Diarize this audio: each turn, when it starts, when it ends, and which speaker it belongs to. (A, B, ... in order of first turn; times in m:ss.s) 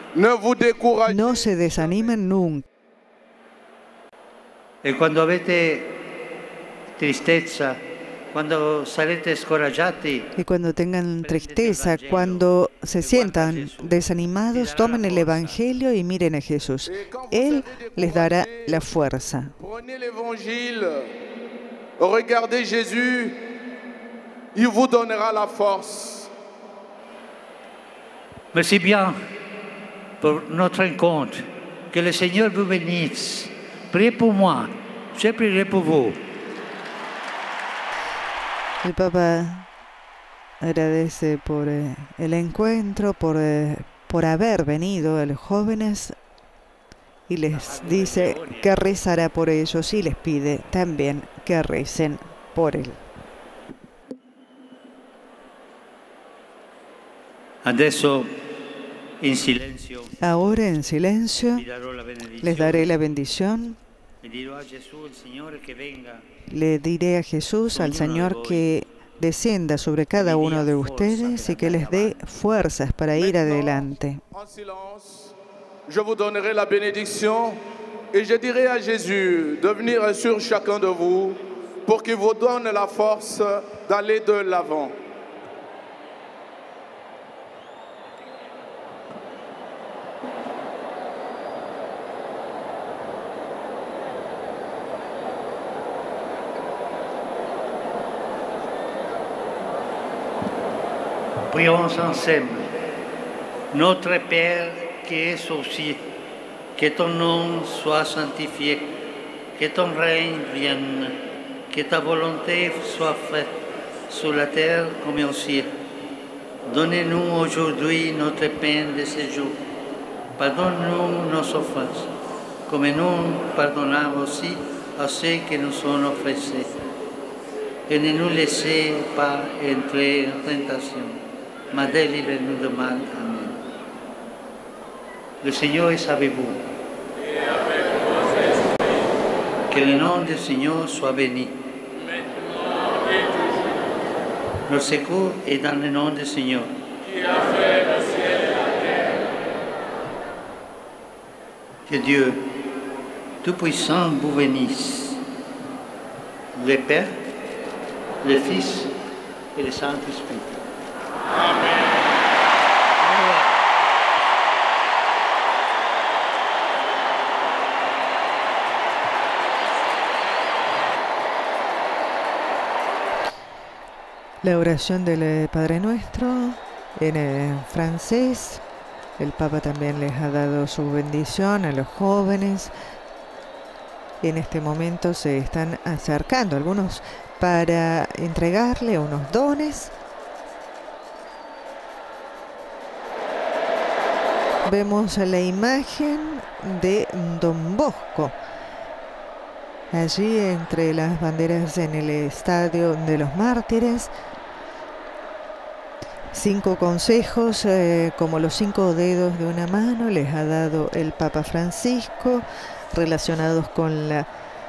0:00.1-0:02.1 A
0:01.1-0:02.6 B
0:04.8-0:06.0 C
0:07.0-0:07.8 C
0:08.3-0:10.3 C
0:10.4-0:19.5 B
0:11.2-0:15.6 C
0:16.8-0:18.9 A
0:19.6-0:21.1 A
0:22.0-0:23.4 A
0:24.5-0:26.3 A
0:28.5-0:29.2 C
0:30.2-0:36.2 C
0:38.8-0:39.6 B
0:40.6-0:46.1 B
0:47.3-0:53.0 B
0:47.5-0:49.0 C
0:57.6-0:58.3 C
0:59.2-1:00.2 C
1:00.2-1:01.6 B
1:01.5-1:03.0 C
1:02.4-1:03.8 B
1:04.2-1:06.2 C
1:06.5-1:14.2 B
1:07.7-1:08.7 C
1:10.1-1:12.2 C
1:13.1-1:15.3 A
1:15.9-1:17.6 A
1:18.1-1:24.9 A
1:41.5-1:42.7 C
1:43.7-1:46.0 C
1:46.8-1:48.9 C
1:49.6-1:51.2 C
1:51.7-1:53.5 C
1:54.1-1:55.7 C
1:56.6-1:59.6 C
2:00.4-2:02.1 C
2:02.7-2:06.7 C
2:07.9-2:13.6 C
2:15.4-2:16.6 C
2:19.7-2:21.6 C
2:24.7-2:26.7 C
2:31.9-2:32.4 C
2:33.4-2:35.2 C
2:36.5-2:37.2 C
2:38.2-2:38.9 C
2:39.6-2:40.6 C
2:43.0-2:43.6 C
2:54.4-2:58.6 B
2:59.2-3:02.7 B
3:04.2-3:09.9 B
3:14.6-3:18.3 B
3:19.9-3:24.1 B
3:26.3-3:34.3 B